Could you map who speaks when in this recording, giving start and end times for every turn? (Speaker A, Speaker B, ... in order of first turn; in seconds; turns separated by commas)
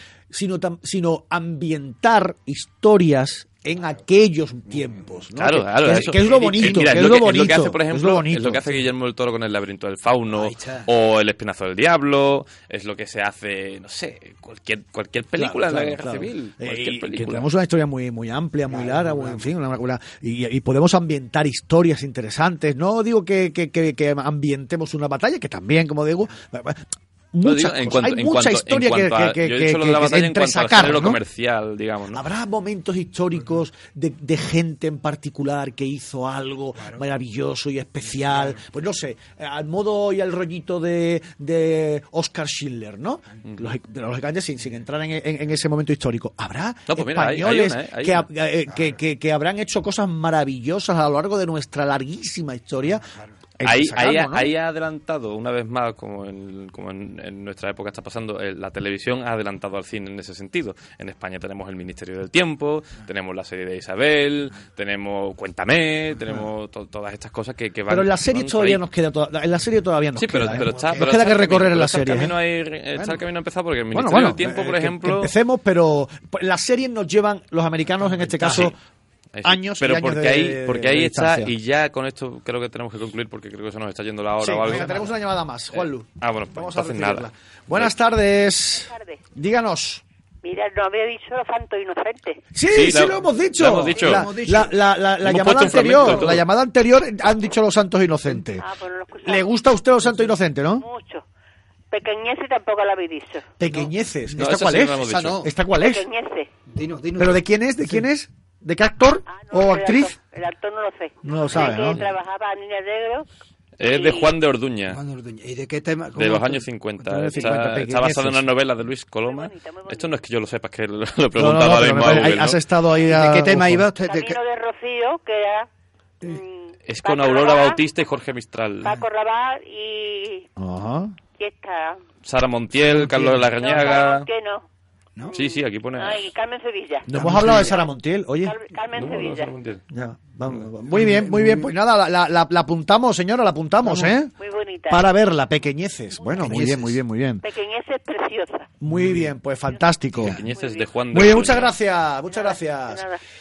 Speaker A: 0.3-8.7, Speaker B: 5.4-17.5, Speaker C: 6.4-7.0, Speaker C: 10.3-10.9, Speaker A: 15.3-31.2, Speaker C: 18.7-19.5, Speaker B: 27.4-32.2, Speaker A: 32.1-54.5, Speaker C: 36.8-37.0, Speaker C: 38.2-38.6, Speaker B: 46.9-48.3, Speaker C: 48.7-49.0, Speaker C: 53.0-53.3, Speaker B: 53.6-68.8, Speaker A: 67.9-72.3, Speaker B: 70.2-75.3, Speaker C: 70.5-71.2, Speaker C: 73.0-73.2, Speaker A: 73.9-78.8, Speaker C: 78.0-78.7, Speaker B: 78.4-78.7, Speaker B: 79.3-85.1, Speaker A: 79.5-81.5, Speaker A: 84.4-90.0, Speaker C: 84.7-85.0, Speaker B: 85.7-87.9, Speaker D: 88.7-89.2, Speaker D: 90.4-92.4, Speaker A: 92.5-98.7, Speaker B: 92.7-94.3, Speaker C: 94.0-94.8, Speaker B: 95.2-96.5, Speaker C: 95.6-96.4, Speaker D: 98.5-99.5, Speaker A: 99.2-100.9, Speaker D: 100.8-101.2, Speaker D: 101.9-103.5, Speaker A: 103.6-106.1, Speaker C: 103.6-105.5, Speaker B: 104.4-105.4, Speaker D: 105.8-106.5, Speaker C: 106.7-108.1, Speaker A: 107.2-110.1, Speaker D: 109.3-113.3, Speaker A: 111.2-112.0, Speaker B: 113.8-115.0, Speaker D: 113.8-114.3, Speaker C: 114.9-116.7, Speaker B: 116.2-122.6, Speaker A: 117.0-118.5, Speaker D: 119.2-120.1, Speaker A: 121.4-123.9, Speaker C: 123.0-124.4, Speaker D: 124.0-125.7, Speaker D: 126.2-127.9, Speaker B: 126.9-129.0, Speaker D: 128.8-130.5, Speaker A: 130.6-131.2, Speaker D: 131.4-132.0, Speaker B: 132.2-134.3, Speaker C: 132.8-133.9, Speaker D: 133.6-134.7, Speaker D: 135.3-137.8, Speaker B: 135.3-136.3, Speaker A: 137.1-138.5, Speaker C: 137.1-137.9, Speaker D: 138.4-139.5, Speaker B: 138.9-139.8, Speaker A: 139.9-144.3, Speaker C: 140.9-141.7, Speaker C: 143.8-144.2, Speaker D: 144.3-145.1, Speaker A: 144.9-147.4, Speaker D: 146.2-146.5, Speaker C: 146.3-147.0, Speaker D: 147.4-148.7, Speaker A: 148.8-150.4, Speaker C: 148.9-149.3, Speaker C: 150.2-150.4, Speaker B: 150.2-151.7, Speaker D: 150.5-150.9, Speaker A: 151.1-153.0, Speaker D: 152.3-153.2